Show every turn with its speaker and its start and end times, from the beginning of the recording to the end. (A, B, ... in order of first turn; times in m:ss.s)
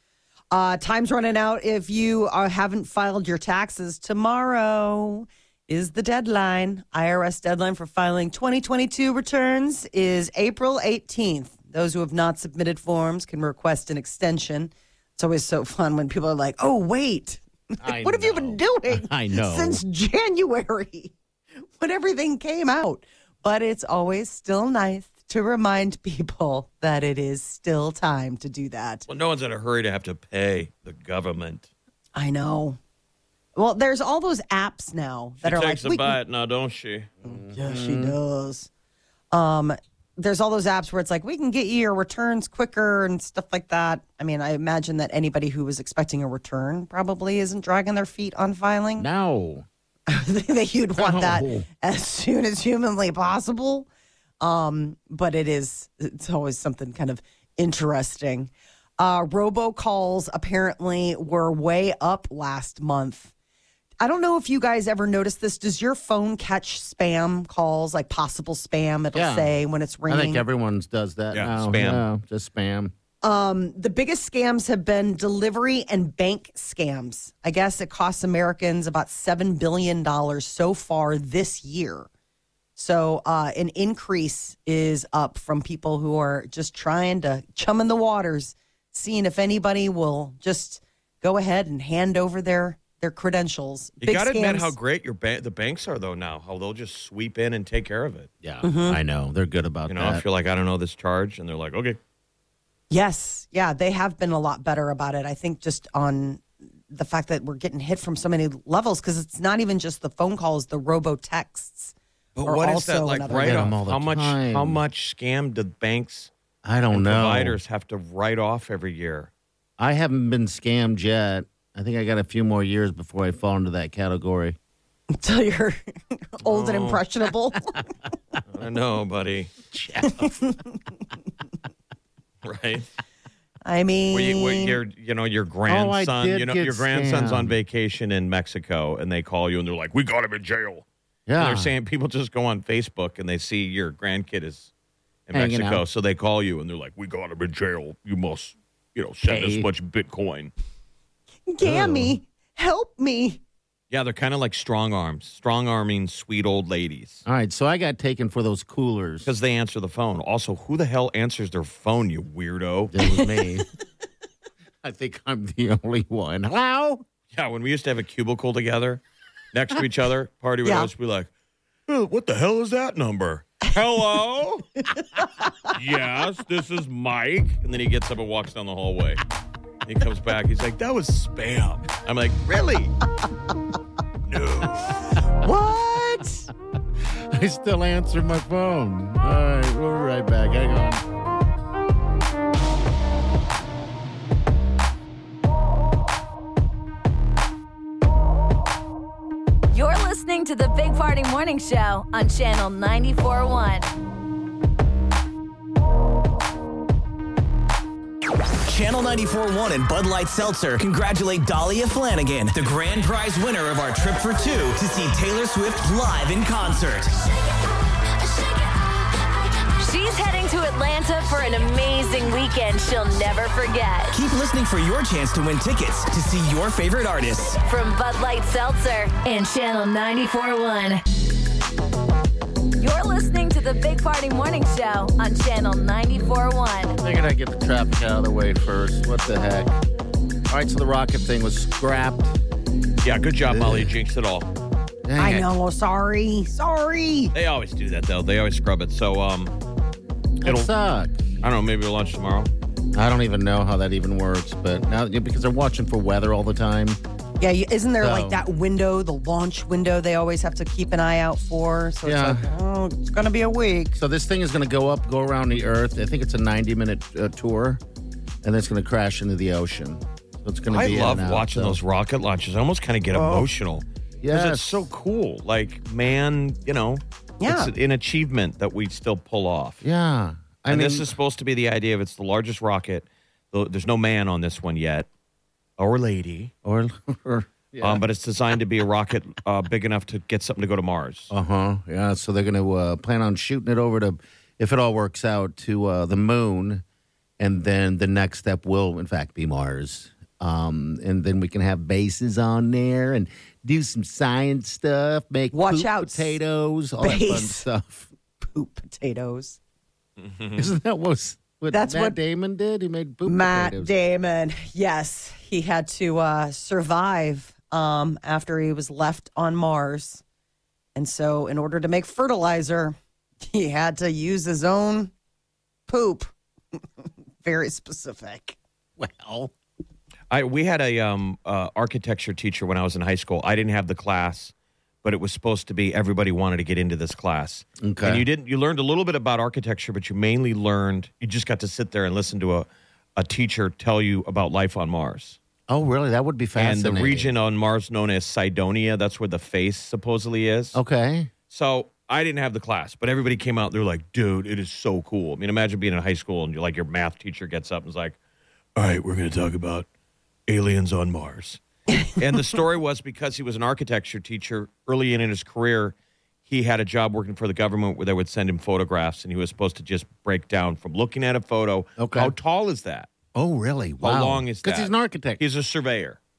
0:00.5-0:21.1 A
0:17.8-0:19.8 B
0:21.8-0:29.0 A
0:29.1-0:31.7 C
0:32.2-0:32.8 A
0:33.6-0:36.2 A
0:35.4-0:37.1 C
0:37.2-0:38.2 B
0:37.2-0:38.7 A
0:39.3-0:49.1 A
0:49.0-0:49.6 B
0:50.1-0:53.9 A
0:51.0-0:51.7 B
0:54.4-1:03.3 A
1:04.0-1:10.4 A
1:09.1-1:09.6 B
1:10.1-1:12.9 B
1:11.3-1:12.0 C
1:13.2-1:22.1 A
1:22.8-1:34.7 A
1:34.0-1:38.3 C
1:38.4-1:40.2 B
1:38.6-1:39.0 A
1:39.9-1:42.0 C
1:42.9-1:53.7 A
1:52.4-1:56.3 C
1:53.3-1:54.8 B
1:56.6-1:57.6 B
1:56.9-1:59.3 C
1:59.8-2:04.6 B
2:05.1-2:07.8 A
2:06.4-2:07.0 C
2:08.5-2:09.5 C
2:09.7-2:10.4 B
2:10.0-2:10.8 A
2:12.4-2:12.9 C
2:13.6-2:14.8 A
2:14.1-2:20.8 C
2:15.7-2:17.6 B
2:21.3-2:21.7 B
2:21.4-2:24.7 C
2:25.3-2:30.5 C
2:25.3-2:25.8 B
2:29.3-2:29.7 B
2:31.5-2:33.4 A
2:31.6-2:32.2 B
2:33.9-2:37.2 C
2:37.3-2:39.3 B
2:39.2-2:43.0 C
2:42.9-2:43.6 B
2:44.8-2:47.0 B
2:47.3-2:49.0 C
2:49.5-2:51.3 C
2:51.9-2:54.7 C
2:55.7-2:59.2 C
2:59.8-3:03.0 C
3:04.3-3:04.9 C
3:05.4-3:06.4 A
3:05.4-3:06.2 B
3:07.3-3:11.0 B
3:19.7-3:23.9 D
3:28.7-3:37.2 E
3:39.8-3:44.2 D
3:44.1-3:47.6 E
3:47.6-3:51.0 D
3:52.8-3:57.0 D
3:57.0-3:59.7 B
4:00.5-4:02.4 B
4:03.0-4:04.5 C
4:03.4-4:03.9 B
4:05.0-4:05.5 B
4:05.2-4:07.3 A
4:07.3-4:09.6 C
4:10.4-4:11.2 B
4:10.4-4:10.7 C
4:11.4-4:12.5 C
4:12.9-4:17.0 B
4:17.4-4:24.0 A
4:18.0-4:18.4 B
4:22.0-4:22.5 B
4:24.0-4:27.8 B
4:28.4-4:31.8 B
4:30.7-4:39.8 C
4:33.2-4:33.4 A
4:34.2-4:34.8 B
4:37.4-4:37.7 A
4:39.8-4:41.1 B
4:40.7-4:45.1 C
4:45.8-4:46.5 C
4:46.6-4:48.0 B
4:47.8-4:51.3 C
4:51.3-4:56.8 B
4:57.4-5:08.1 B
5:05.5-5:06.4 A
5:07.0-5:07.7 A
5:08.4-5:09.6 A
5:10.2-5:10.7 C
5:10.6-5:13.9 B
5:11.7-5:12.2 A
5:13.3-5:20.2 A
5:21.0-5:25.1 A
5:25.9-5:26.3 A
5:27.4-5:28.6 A
5:29.0-5:29.5 B
5:30.3-5:34.5 C
5:35.0-5:45.4 C
5:37.8-5:38.3 B
5:45.7-5:47.3 B
5:46.6-5:50.8 C
5:50.7-5:51.3 B
5:51.5-5:58.2 C
5:58.8-5:59.9 C
6:00.5-6:06.0 C
6:06.5-6:13.1 C
6:12.0-6:12.3 B
6:13.4-6:15.4 B
6:14.0-6:16.2 C